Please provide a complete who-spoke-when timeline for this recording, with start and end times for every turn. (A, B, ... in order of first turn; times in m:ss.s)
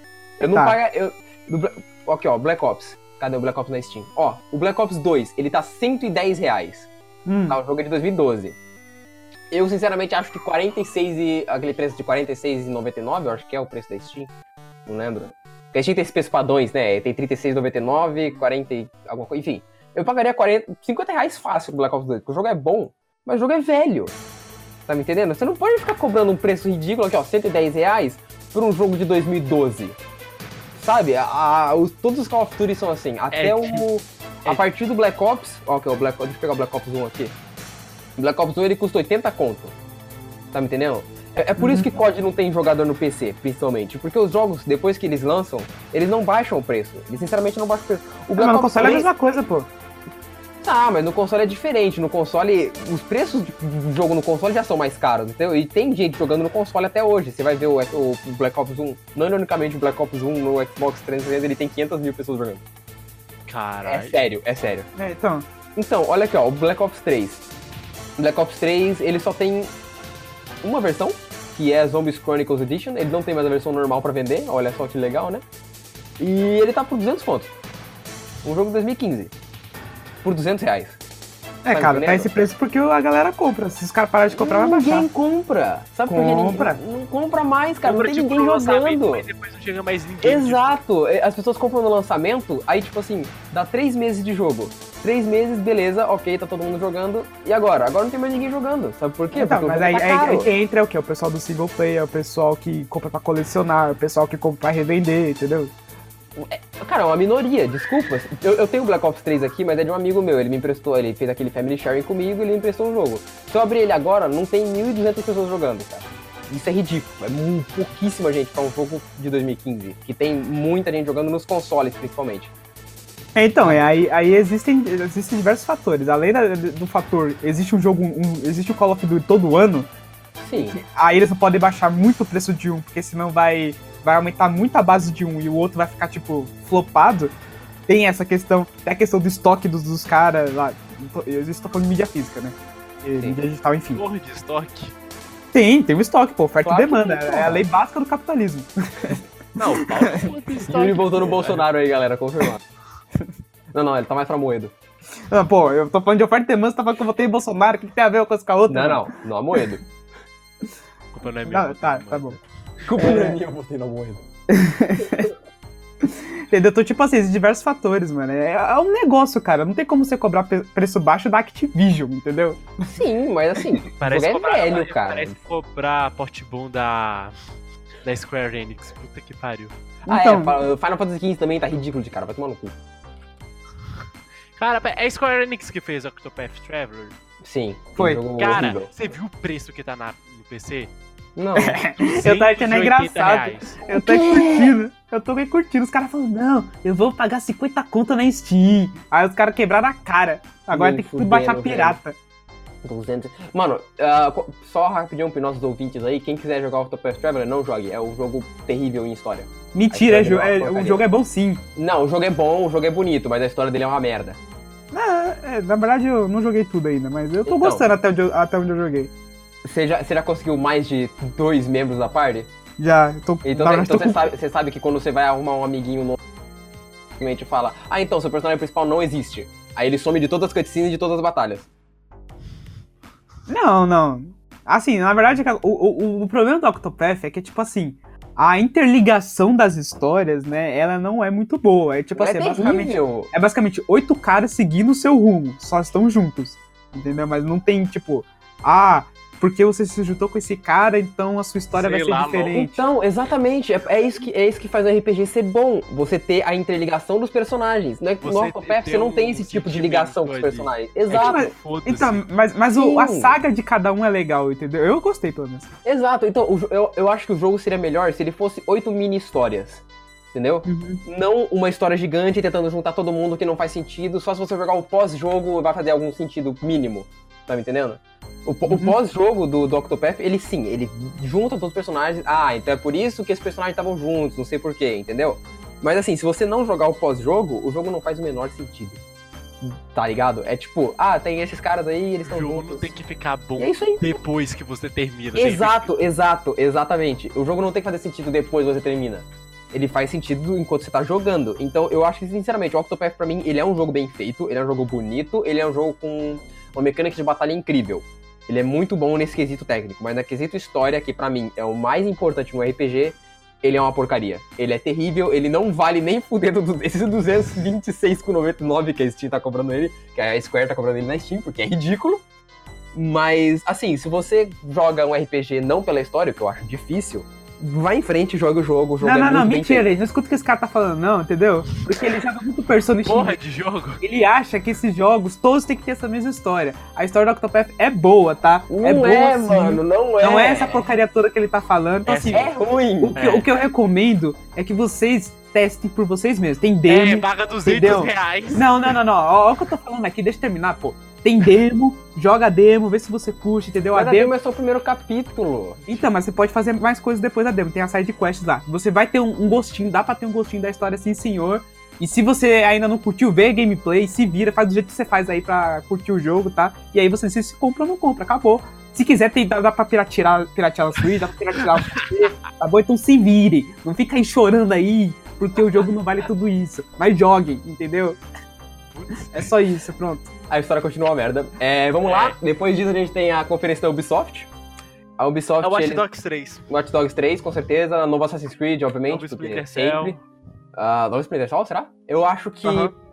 0:00.4-0:06.9 A
0:07.3-0:07.6 B
0:07.5-0:08.6 A
0:09.5-0:14.3 A
0:14.9-0:24.2 A
0:24.9-0:30.0 A
0:30.8-0:37.4 A
0:33.3-0:33.9 C
0:38.2-0:39.8 A
0:40.5-0:49.1 A
0:41.6-0:41.9 B
0:48.4-0:49.7 B
0:50.6-1:02.6 A
1:03.5-1:04.2 C
1:03.8-1:04.9 A
1:05.0-1:05.5 B
1:05.8-1:07.4 A
1:08.2-1:09.7 A
1:10.6-1:15.4 A
1:16.2-1:17.5 A
1:18.4-1:19.3 A
1:20.2-1:21.0 A
1:21.6-1:25.1 B
1:21.7-1:22.3 A
1:24.3-1:29.3 A
1:26.1-1:26.8 B
1:27.8-1:30.7 C
1:30.2-1:40.5 A
1:39.3-1:45.7 B
1:46.4-2:02.5 A
2:03.4-2:09.9 B
2:03.6-2:04.0 A
2:10.4-2:10.8 A
2:10.7-2:17.3 B
2:17.9-2:24.0 B
2:23.9-2:24.9 C
2:25.5-2:30.3 B
2:26.6-2:27.6 A
2:29.6-2:31.6 C
2:30.7-2:32.6 A
2:33.7-2:34.7 A
2:35.3-2:39.1 B
2:38.7-2:39.8 A
2:41.1-2:42.4 C
2:41.5-2:42.4 B
2:42.9-2:44.2 A
2:43.0-2:43.4 B
2:44.5-2:45.3 B
2:46.0-2:52.7 B
2:52.8-2:55.4 A
2:54.0-2:57.3 C
2:58.0-2:59.7 C
3:00.1-3:00.5 B
3:00.1-3:02.8 A
3:04.6-3:07.2 C
3:07.4-3:08.9 A
3:08.0-3:08.2 B
3:08.4-3:10.9 C
3:11.4-3:11.8 A
3:11.6-3:22.2 B
3:12.0-3:13.8 C
3:13.9-3:14.7 A
3:20.7-3:22.0 A
3:22.8-3:31.0 A
3:29.7-3:31.6 B
3:31.8-3:34.4 A
3:34.9-3:39.1 B
3:37.4-3:37.9 A
3:39.6-3:42.5 A
3:42.8-3:44.3 B
3:43.4-3:46.2 A
3:47.2-3:51.7 A
3:53.5-4:12.8 B
4:02.2-4:03.3 A
4:11.7-4:12.6 C
4:12.6-4:21.5 A
4:18.2-4:22.3 C
4:21.1-4:25.7 B
4:22.7-4:23.4 A
4:25.8-4:49.0 A
4:30.6-4:31.0 B
4:38.7-4:39.0 B
4:49.6-4:52.9 A
4:52.2-4:56.0 C
4:53.6-4:54.1 A
4:55.4-5:22.2 A
5:22.9-5:29.9 A
5:29.0-5:33.4 B
5:33.0-5:34.0 C
5:34.0-5:42.5 B
5:38.7-5:40.9 A
5:42.1-5:42.5 C
5:42.3-5:43.2 A
5:43.0-5:54.3 B
5:43.2-5:43.5 C
5:46.9-5:48.7 C
5:53.9-5:55.8 A
5:55.9-6:18.2 B
6:18.9-6:19.5 C
6:19.3-6:20.3 B
6:20.5-6:24.5 A
6:22.0-6:22.4 C
6:25.2-6:26.0 A
6:25.6-6:26.6 C
6:26.7-6:30.2 A
6:29.1-6:30.2 C
6:30.8-6:32.9 A
6:32.6-6:32.9 C